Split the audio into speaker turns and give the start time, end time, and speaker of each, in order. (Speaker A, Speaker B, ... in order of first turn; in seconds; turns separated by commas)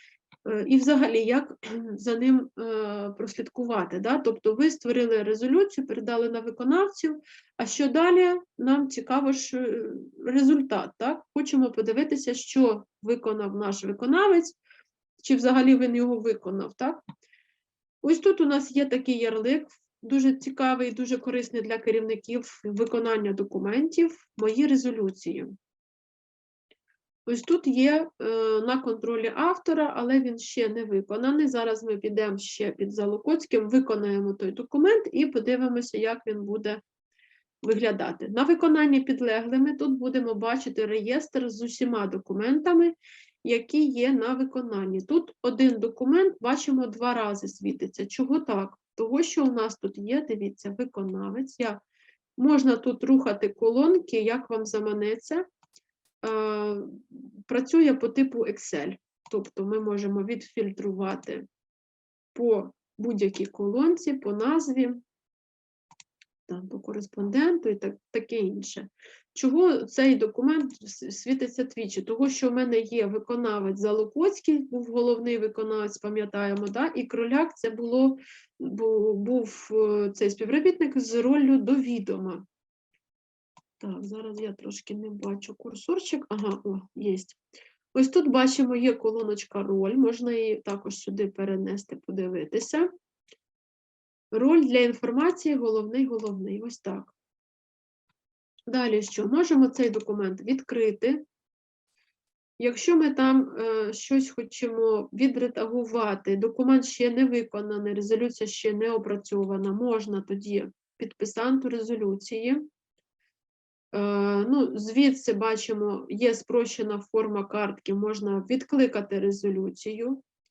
Speaker A: 0.5-14.6, Speaker A: 15.2-17.0, Speaker A: 18.0-25.5, Speaker A: 27.2-36.8, Speaker A: 37.6-51.8, Speaker A: 52.4-55.5, Speaker A: 56.2-61.5, Speaker A: 62.3-65.0, Speaker A: 66.5-82.4, Speaker A: 83.8-87.4, Speaker A: 87.9-92.9, Speaker A: 94.3-97.1, Speaker A: 98.7-101.2, Speaker A: 102.6-112.7, Speaker A: 113.9-120.2